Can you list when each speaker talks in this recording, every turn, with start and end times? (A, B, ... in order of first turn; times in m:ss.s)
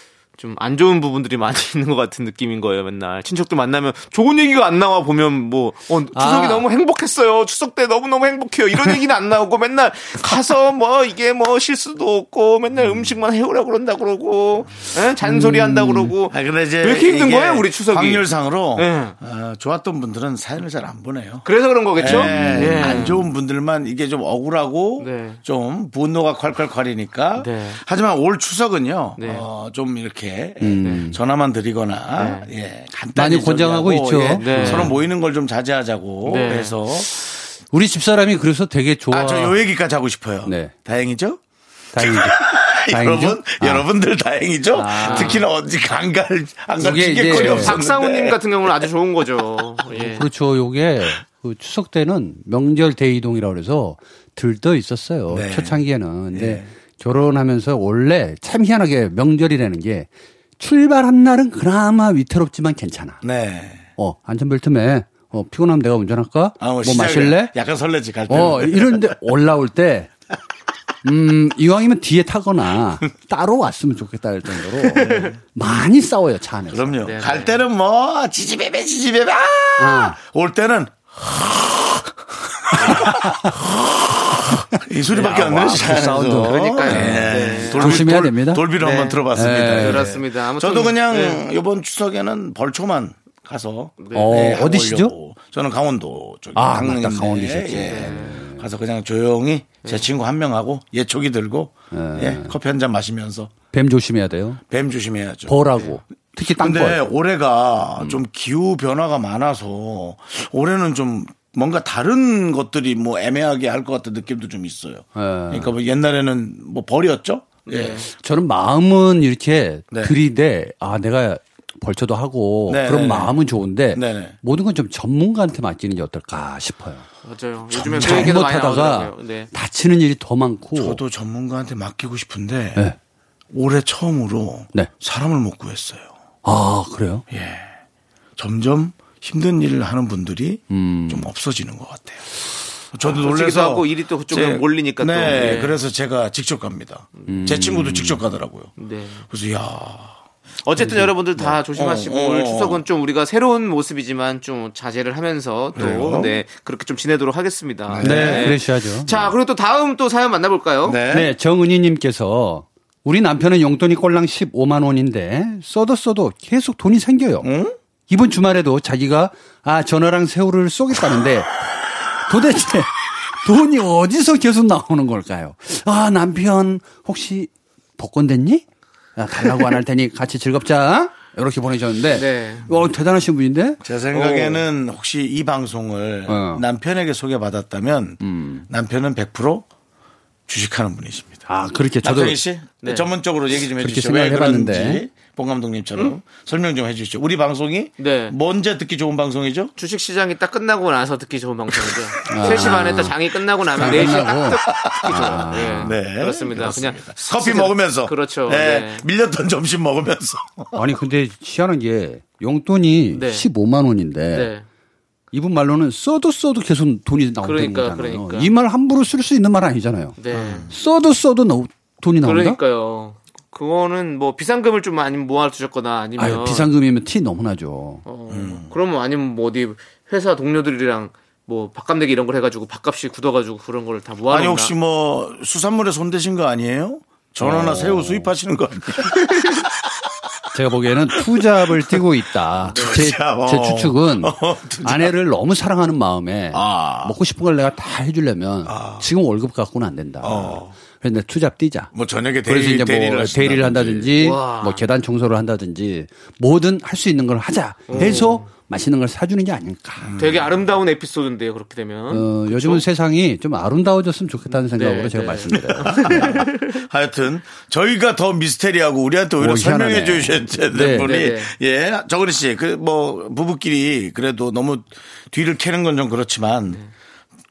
0:00.4-0:19.1 A
0:06.1-0:06.6 B
0:15.2-0:16.1 B
0:16.3-0:37.1 C
0:21.4-0:23.3 A
0:22.1-0:23.1 B
0:25.0-0:25.4 A
0:27.4-0:27.8 A
0:29.2-0:29.4 A
0:30.6-0:31.2 B
0:32.2-0:32.5 A
0:33.2-0:34.9 B
0:34.3-0:35.0 A
0:36.2-0:36.8 A
0:37.7-0:39.6 B
0:39.1-0:41.4 C
0:40.4-0:40.7 B
0:41.9-0:43.8 B
0:41.9-0:48.4 C
0:44.7-0:45.4 B
0:45.0-0:45.4 A
0:46.8-0:47.8 B
0:47.2-0:50.2 A
0:49.9-1:03.2 B
0:55.3-0:55.8 C
0:56.3-0:56.7 C
1:03.2-1:03.9 C
1:04.0-1:07.5 B
1:06.6-1:09.1 C
1:08.3-1:10.1 B
1:11.0-1:17.0 B
1:14.9-1:15.4 C
1:15.0-1:15.3 A
1:16.7-1:43.5 C
1:17.0-1:17.6 A
1:19.8-1:20.2 B
1:22.7-1:23.1 A
1:25.1-1:31.4 A
1:25.2-1:28.7 B
1:29.3-1:30.0 B
1:34.0-1:34.3 A
1:34.1-1:35.1 B
1:36.5-1:38.6 B
1:37.8-1:38.4 A
1:41.9-1:42.5 B
1:43.7-1:44.6 B
1:44.7-1:45.6 C
1:45.5-1:47.0 B
1:45.7-1:46.0 A
1:46.4-1:58.0 C
1:55.1-1:55.7 B
1:57.6-1:58.1 A
1:58.1-2:07.0 B
1:59.9-2:00.2 C
2:02.7-2:03.4 C
2:03.9-2:04.4 C
2:07.2-2:09.5 A
2:07.7-2:08.4 C
2:07.8-2:11.0 B
2:10.8-2:12.8 C
2:13.5-2:16.1 C
2:16.4-2:17.2 B
2:17.3-2:17.7 C
2:18.4-2:22.4 C
2:20.7-2:21.3 B
2:22.9-2:28.7 C
2:23.0-2:25.8 A
2:27.3-2:28.2 B
2:28.8-2:29.3 A
2:29.3-2:30.2 C
2:30.6-2:41.0 A
2:30.8-2:32.8 C
2:35.7-2:36.4 C
2:37.9-2:38.6 C
2:38.0-2:39.3 B
2:40.8-2:41.3 C
2:41.1-2:47.5 B
2:47.4-2:47.8 C
2:48.1-2:51.6 B
2:52.2-2:58.6 B
2:59.2-3:03.8 B
3:02.1-3:02.7 A
3:03.8-3:09.6 C
3:04.1-3:04.6 A
3:06.3-3:06.6 B
3:08.2-3:08.7 B
3:10.5-3:11.5 C
3:11.5-3:12.4 B
3:12.0-3:19.7 C
3:12.8-3:13.1 A
3:13.7-3:15.0 B
3:18.0-3:18.3 A
3:19.8-3:29.0 A
3:21.8-3:22.8 C
3:22.3-3:23.1 B
3:23.8-3:25.9 B
3:23.8-3:30.8 C
3:30.8-3:34.5 B
3:33.1-3:33.4 A
3:34.3-3:34.6 A
3:35.3-3:42.6 B
3:37.4-3:38.5 A
3:40.2-3:40.7 A
3:40.3-3:40.7 C
3:42.2-3:46.7 A
3:46.2-3:48.0 B
3:48.0-3:54.7 A
3:48.3-3:48.7 C
3:54.3-3:59.9 C
3:57.4-3:58.3 B
4:00.5-4:11.9 B
4:01.6-4:02.0 C
4:02.6-4:05.1 C
4:02.7-4:03.0 A
4:06.5-4:07.2 C
4:08.6-4:09.1 C
4:10.2-4:10.8 C
4:11.9-4:14.2 C
4:12.4-4:20.2 B
4:14.2-4:14.8 A
4:17.9-4:18.2 C
4:17.9-4:18.5 A
4:20.0-4:20.6 C
4:20.1-4:22.8 A
4:22.1-4:26.4 B
4:24.5-4:26.8 A
4:25.5-4:36.8 C
4:29.4-4:31.1 B
4:31.0-4:31.5 A